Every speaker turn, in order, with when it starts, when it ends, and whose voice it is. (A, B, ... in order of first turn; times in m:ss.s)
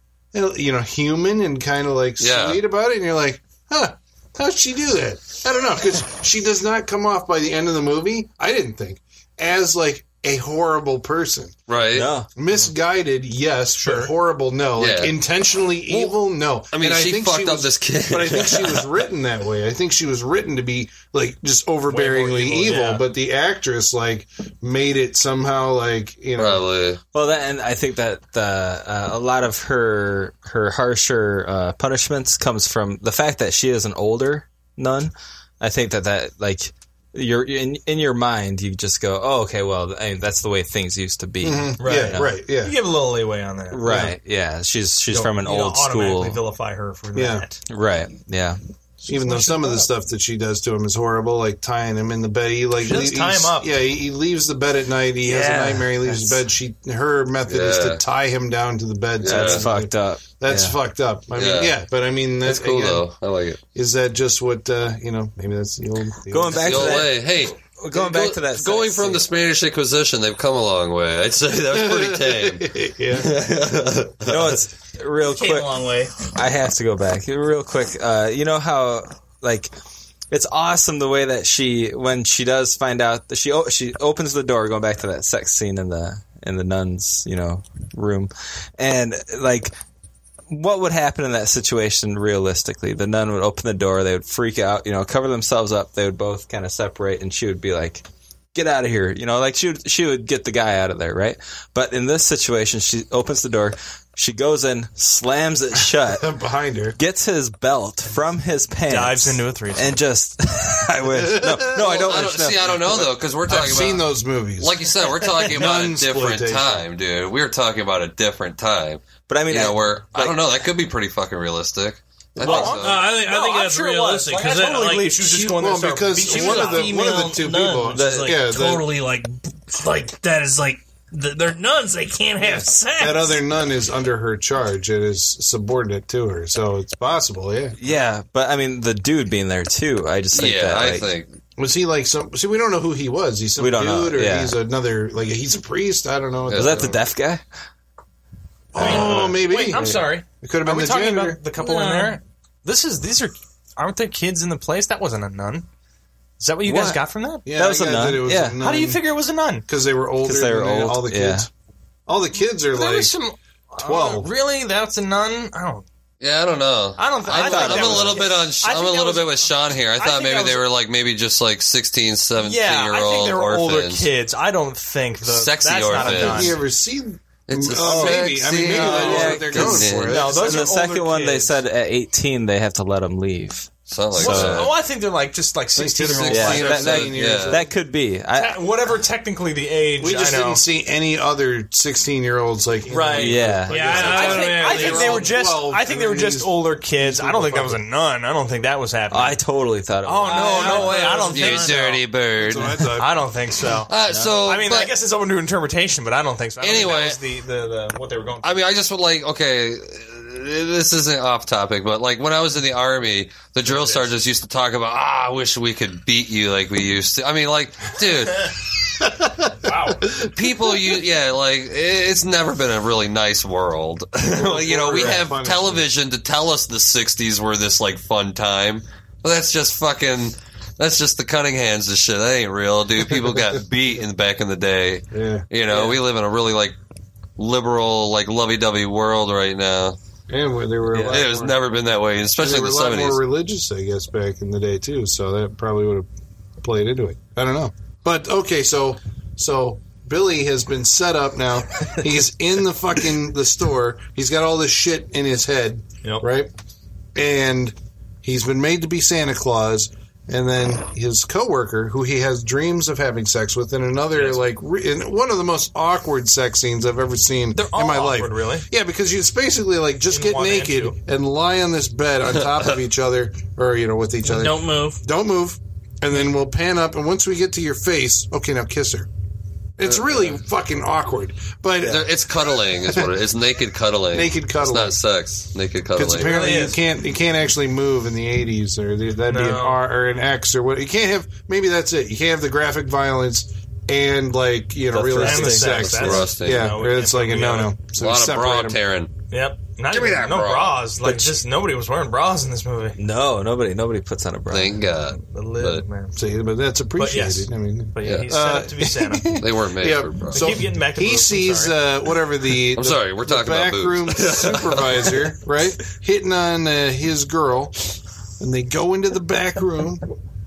0:00.3-0:11.6 A
0:02.2-0:02.6 B
0:11.7-0:12.1 B
0:11.9-0:12.3 C
0:12.4-0:26.6 A
0:13.8-0:14.1 D
0:14.8-0:15.2 B
0:15.9-0:16.2 B
0:16.7-0:18.9 B
0:21.9-0:23.0 D
0:26.4-0:27.0 B
0:27.1-0:42.3 C
0:41.4-0:42.8 A
0:41.8-0:44.0 D
0:43.7-0:46.4 C
0:43.8-0:44.2 A
0:45.1-0:47.6 D
0:47.2-0:47.5 A
0:47.7-0:48.6 C
0:49.0-0:49.9 D
0:49.1-1:03.1 A
0:52.8-0:53.7 D
0:55.2-0:56.4 C
0:57.5-0:58.0 B
0:59.2-0:59.6 B
0:59.2-1:00.8 C
1:01.3-1:01.8 B
1:02.4-1:03.6 B
1:03.7-1:07.1 A
1:06.3-1:09.2 C
1:06.5-1:14.6 B
1:11.7-1:13.4 A
1:14.2-1:19.7 C
1:15.2-1:16.2 E
1:20.3-1:29.8 C
1:30.5-1:46.3 C
1:46.0-1:47.0 A
1:47.0-1:52.7 C
1:48.9-1:50.0 D
1:51.1-1:51.8 A
1:51.7-2:03.1 B
1:53.5-1:54.8 A
1:55.5-1:56.8 A
1:59.3-2:00.4 C
2:02.4-2:07.0 D
2:02.4-2:02.8 C
2:02.5-2:13.4 E
2:05.5-2:08.9 A
2:07.9-2:08.3 C
2:12.4-2:17.8 A
2:17.8-2:21.1 C
2:20.3-2:21.3 B
2:21.6-2:27.0 A
2:23.6-2:24.6 C
2:26.5-2:26.9 B
2:26.5-2:27.4 C
2:28.7-2:31.4 A
2:28.8-2:35.7 D
2:28.8-2:30.1 C
2:31.6-2:32.2 E
2:36.4-2:37.5 D
2:36.6-2:38.6 C
2:37.4-2:39.0 A
2:38.6-2:39.7 D
2:39.7-2:41.5 A
2:40.2-2:41.5 C
2:42.1-2:43.1 A
2:42.7-2:45.9 D
2:43.8-2:44.3 A
2:46.2-2:54.1 B
2:47.0-2:50.6 D
2:47.3-2:48.3 C
2:52.4-2:56.6 D
2:55.2-2:56.6 B
2:56.0-3:00.5 A
2:57.5-3:00.2 B
2:57.8-3:04.7 C
3:00.1-3:01.6 D
3:03.9-3:04.7 B
3:04.1-3:07.1 D
3:05.8-3:07.7 A
3:06.1-3:07.6 B
3:06.3-3:08.6 C
3:08.3-3:10.6 D
3:10.0-3:17.8 A
3:12.9-3:19.4 D
3:13.1-3:14.2 C
3:13.7-3:15.5 E
3:19.1-3:21.0 C
3:20.0-3:22.0 D
3:20.2-3:22.0 E
3:21.2-3:22.9 B
3:22.4-3:23.2 A
3:22.9-3:28.6 D
3:23.8-3:24.9 B
3:26.6-3:27.2 B
3:28.4-3:38.7 B
3:33.7-3:34.1 D
3:39.5-3:40.1 D
3:40.1-3:56.8 B
3:44.3-3:45.8 A
3:55.1-3:55.5 A
3:57.4-4:00.0 B
4:00.3-4:01.6 A
4:00.9-4:01.2 C
4:01.0-4:03.2 B
4:02.4-4:06.1 A
4:06.6-4:16.5 A
4:17.2-4:39.1 A
4:24.2-4:24.4 D
4:27.6-4:28.7 D
4:30.1-4:31.0 D
4:34.2-4:35.0 E
4:39.8-4:43.1 A
4:41.8-4:46.4 B
4:44.1-4:45.0 A
4:46.0-4:58.8 A
4:46.2-4:46.8 D
4:49.3-4:49.8 D
4:54.9-4:56.0 C
4:55.2-4:57.8 D
4:55.8-4:56.7 B
4:57.8-4:59.2 B
4:59.3-5:03.0 D
4:59.9-5:00.9 B
5:01.0-5:01.3 C
5:03.0-5:04.8 C
5:04.5-5:05.8 B
5:05.1-5:06.2 D
5:06.2-5:17.8 A
5:07.0-5:09.4 D
5:08.0-5:08.3 B
5:09.4-5:10.6 B
5:10.3-5:11.8 D
5:12.7-5:15.2 B
5:18.4-5:20.0 A